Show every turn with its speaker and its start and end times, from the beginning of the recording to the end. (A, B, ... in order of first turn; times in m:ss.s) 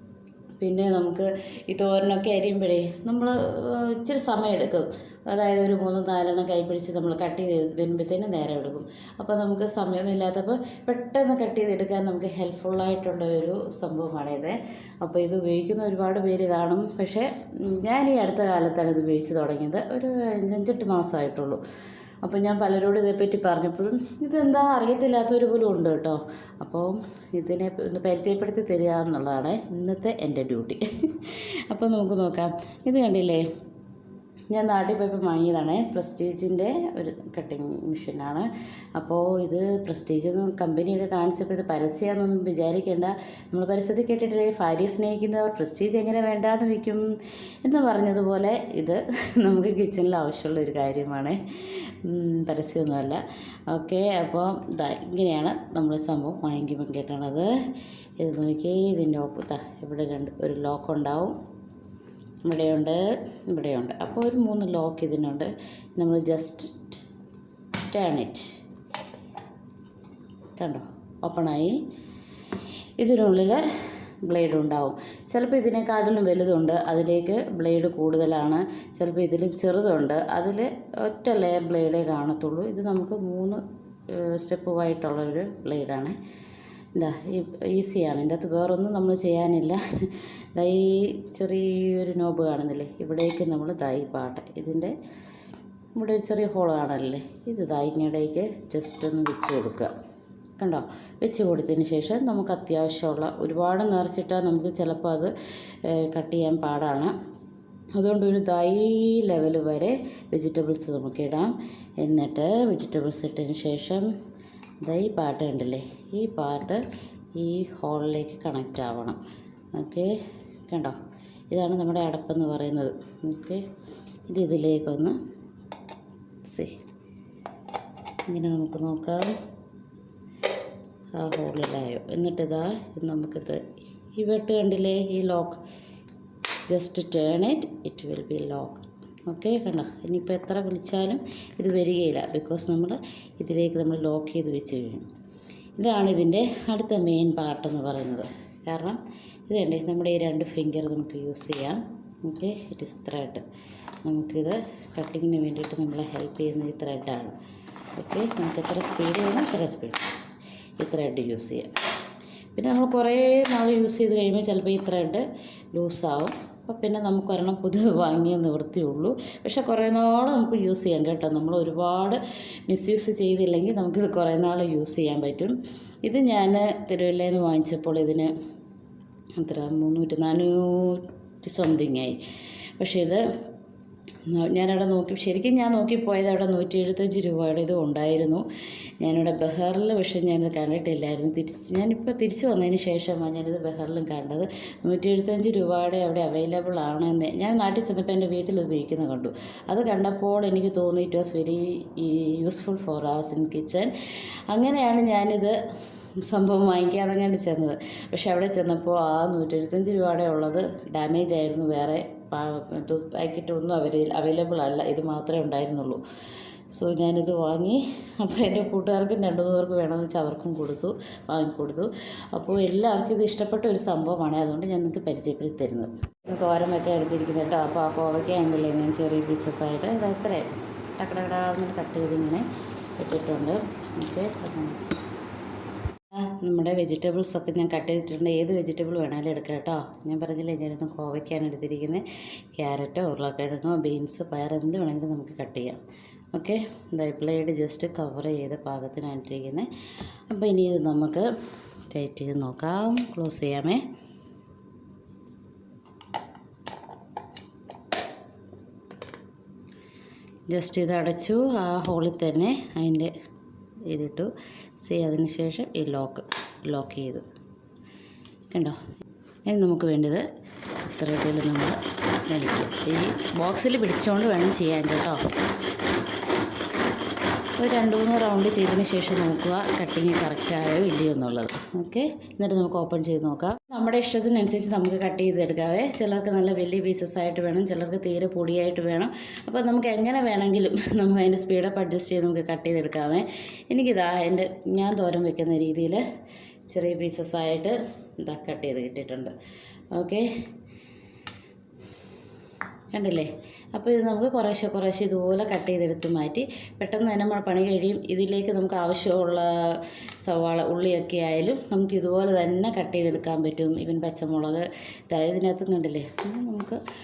0:00.6-0:21.6 A
0:22.2-0:33.4 A
0:34.5-0:47.1 A
0:47.6-0:57.5 A
0:58.2-1:01.4 A
1:02.4-1:07.0 A
1:07.8-1:08.5 A
1:10.6-1:11.8 A
1:13.0-1:13.6 A
1:14.2-1:26.2 A
1:27.0-1:35.0 A
1:36.0-1:39.9 A
1:40.6-1:45.3 A
1:45.8-1:47.1 A
1:48.0-1:54.1 A
1:54.8-1:56.8 A
1:57.4-1:59.2 A
1:59.8-2:00.1 A
2:00.7-2:01.0 A
2:01.5-2:03.6 A
2:04.3-2:05.2 A
2:06.4-2:06.8 A
2:08.3-2:09.3 A
2:11.2-2:13.6 A
2:14.2-2:15.6 A
2:16.7-2:25.1 A
2:25.8-2:33.4 A
2:34.0-2:37.4 A
2:38.0-2:40.1 A
2:40.8-2:41.7 A
2:42.6-2:58.3 A
2:59.4-3:02.2 A
3:02.8-3:03.2 A
3:04.3-3:08.4 A
3:09.0-3:23.9 A
3:24.5-3:25.6 A
3:26.2-3:36.0 A
3:36.7-3:52.4 A
3:53.0-3:54.8 A
3:56.1-4:05.8 A
4:06.3-4:09.7 A
4:10.3-4:11.3 A
4:11.9-4:13.8 A
4:20.5-4:23.1 A
4:23.9-4:27.3 A
4:28.5-4:28.8 A
4:29.5-4:30.2 A
4:30.8-4:35.2 A
4:37.6-4:56.0 A
4:56.7-4:59.3 A
4:59.9-5:00.3 A
5:02.9-5:16.8 A